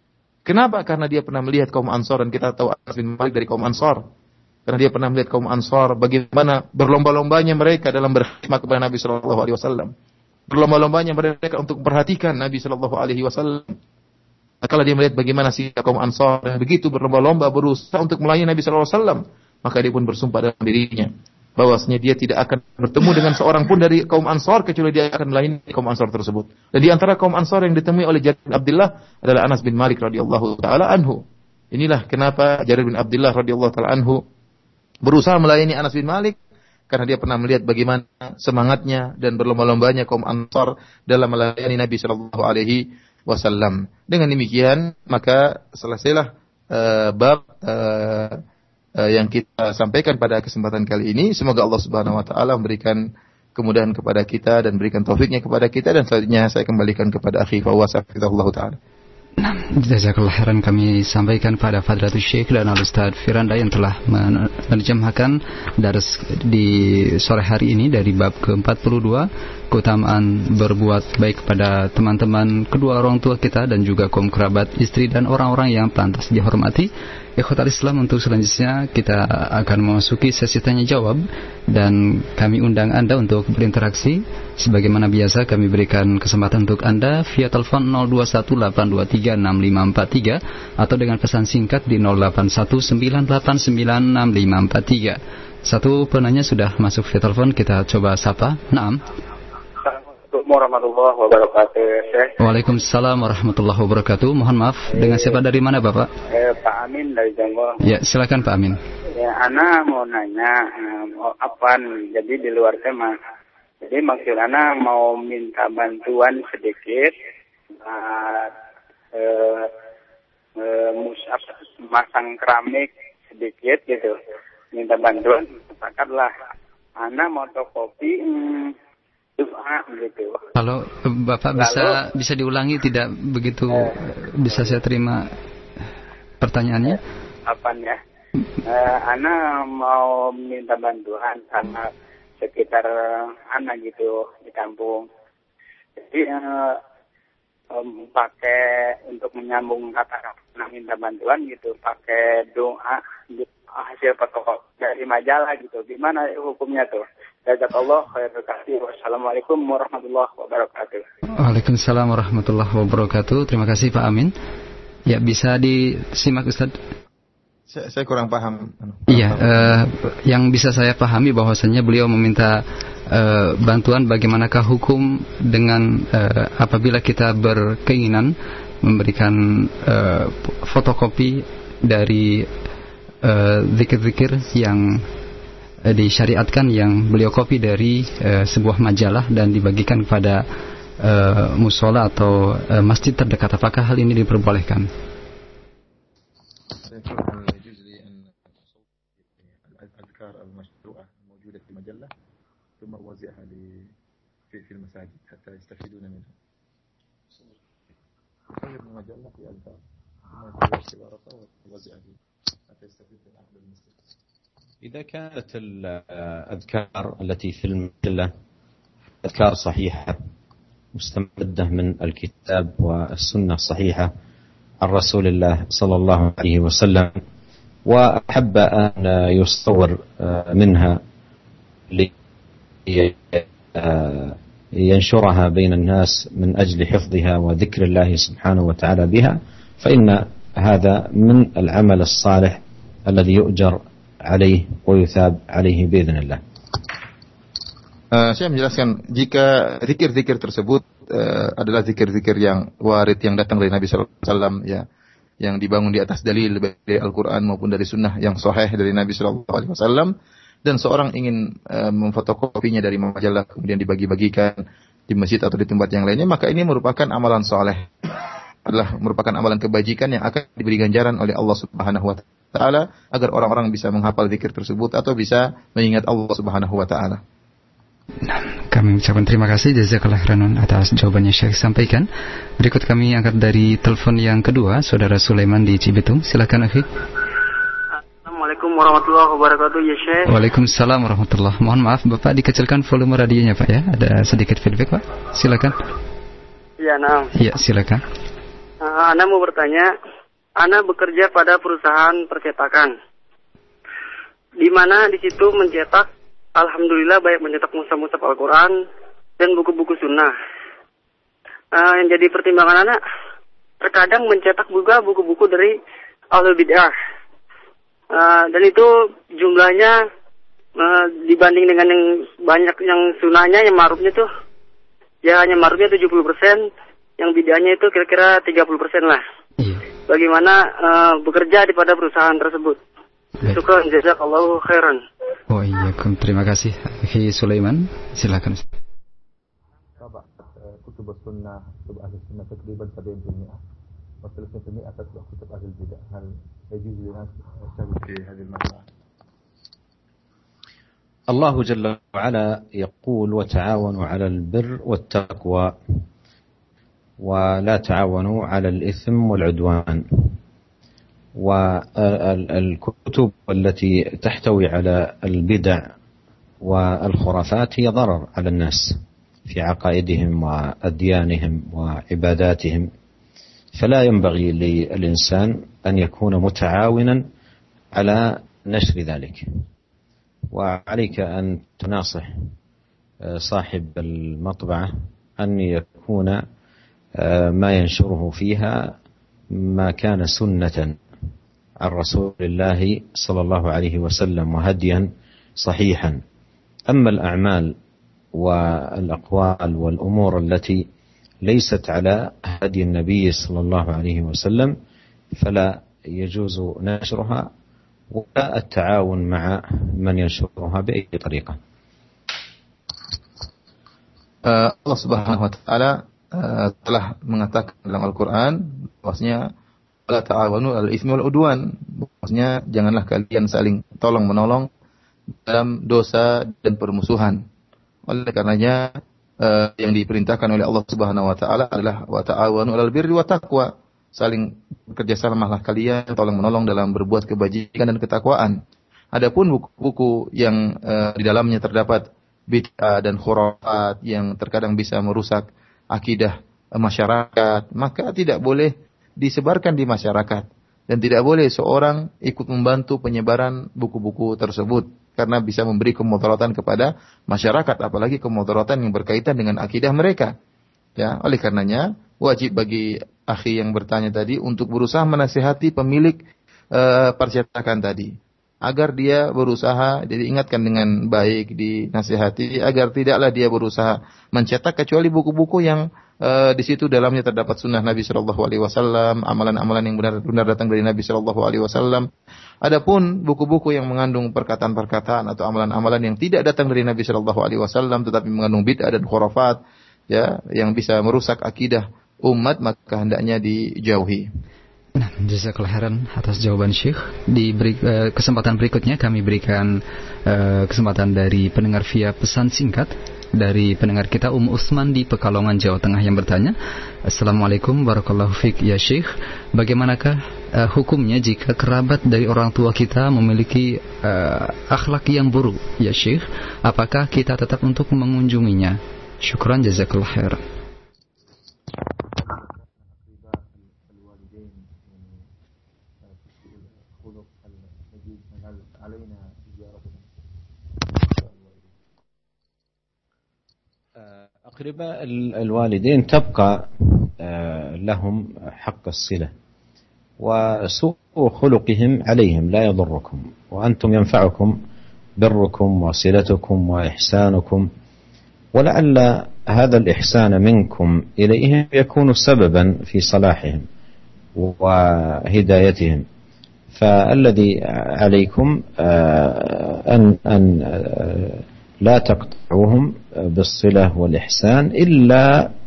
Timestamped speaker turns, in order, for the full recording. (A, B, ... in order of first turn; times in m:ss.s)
0:00.4-0:04.0 A
0:04.7-0:09.9 A
0:10.5-0:13.7 A
0:14.6-0:34.2 A
0:35.0-0:36.4 A
0:36.9-0:48.4 A
0:49.0-0:53.0 A
0:53.6-0:58.8 A
0:59.4-1:39.0 B
1:39.8-1:42.3 C
1:42.4-1:46.1 B
1:44.9-1:45.4 C
1:46.3-1:47.8 C
1:47.8-1:48.8 B
1:49.1-1:53.1 C
1:53.8-1:57.1 C
1:57.7-1:58.5 C
1:59.1-1:59.7 C
2:00.6-2:04.2 C
2:04.7-2:06.3 C
2:07.0-2:08.7 C
2:09.4-2:10.4 C
2:10.6-2:15.2 B
2:11.6-2:12.0 C
2:14.5-2:14.8 C
2:16.4-2:17.0 B
2:16.9-2:18.0 C
2:18.6-2:21.9 C
2:22.4-2:25.0 C
2:26.0-2:26.8 C
2:27.7-2:41.0 C
2:41.4-2:44.3 B
2:45.1-2:46.7 B
2:47.7-2:49.8 A
2:49.1-3:02.5 B
3:03.2-3:05.0 B
3:05.8-3:10.4 B
3:11.0-3:14.9 B
3:16.8-3:22.1 A
3:22.8-3:23.9 A
3:24.5-3:26.3 A
3:28.5-3:29.8 A
3:30.3-3:32.2 A
3:32.7-3:34.0 A
3:34.8-3:38.3 D
3:39.2-3:40.2 D
3:40.9-3:44.1 D
3:44.8-3:47.2 D
3:47.8-3:51.0 D
3:52.9-4:06.4 D
4:08.1-4:14.8 A
4:15.4-4:20.1 A
4:20.6-4:37.2 A
4:38.2-4:42.1 B
4:42.6-4:46.9 B
4:48.2-4:50.3 E
4:50.3-4:55.7 B
4:56.8-4:57.3 E
4:57.4-4:58.0 B
4:58.8-4:59.9 E
5:00.6-5:02.9 E
5:04.6-5:08.7 E
5:09.4-5:10.3 E
5:11.7-5:13.0 E
5:13.8-5:15.8 E
5:16.3-5:16.9 E
5:18.1-5:20.0 E
5:20.8-5:24.3 E
5:25.2-5:29.2 E
5:30.1-5:32.8 E
5:33.4-5:35.0 E
5:35.5-5:38.6 B
5:40.0-5:43.6 A
5:44.2-5:48.9 A
5:51.3-5:55.7 D
5:57.2-6:00.3 D
6:01.4-6:05.8 D
6:06.6-6:12.9 D
6:13.8-6:17.2 D
6:18.0-6:19.4 D
6:20.5-6:22.3 D
6:23.2-6:26.4 D
6:27.2-6:28.9 D
6:29.5-6:31.0 D
6:31.8-6:35.1 D
6:35.6-6:36.2 D
6:36.9-6:37.7 D
6:38.4-6:40.8 D
6:41.4-6:44.7 D
6:45.3-6:47.5 D
6:48.1-6:51.6 D
6:54.4-6:59.4 A
7:00.1-7:04.7 A
7:05.4-7:07.4 A
7:08.1-7:18.6 A
7:19.1-7:40.3 A
7:41.0-7:46.2 A
7:46.7-7:48.1 A
7:48.6-8:02.1 A
8:02.6-8:14.3 A
8:15.0-8:26.6 B
8:27.1-8:40.4 B
8:42.1-8:45.2 A
8:46.1-8:50.0 A
8:51.0-8:51.7 A
8:54.0-8:59.3 D
9:00.2-9:04.6 D
9:05.2-9:07.7 D
9:08.5-9:13.6 D
9:14.4-9:16.0 D
9:16.7-9:25.5 D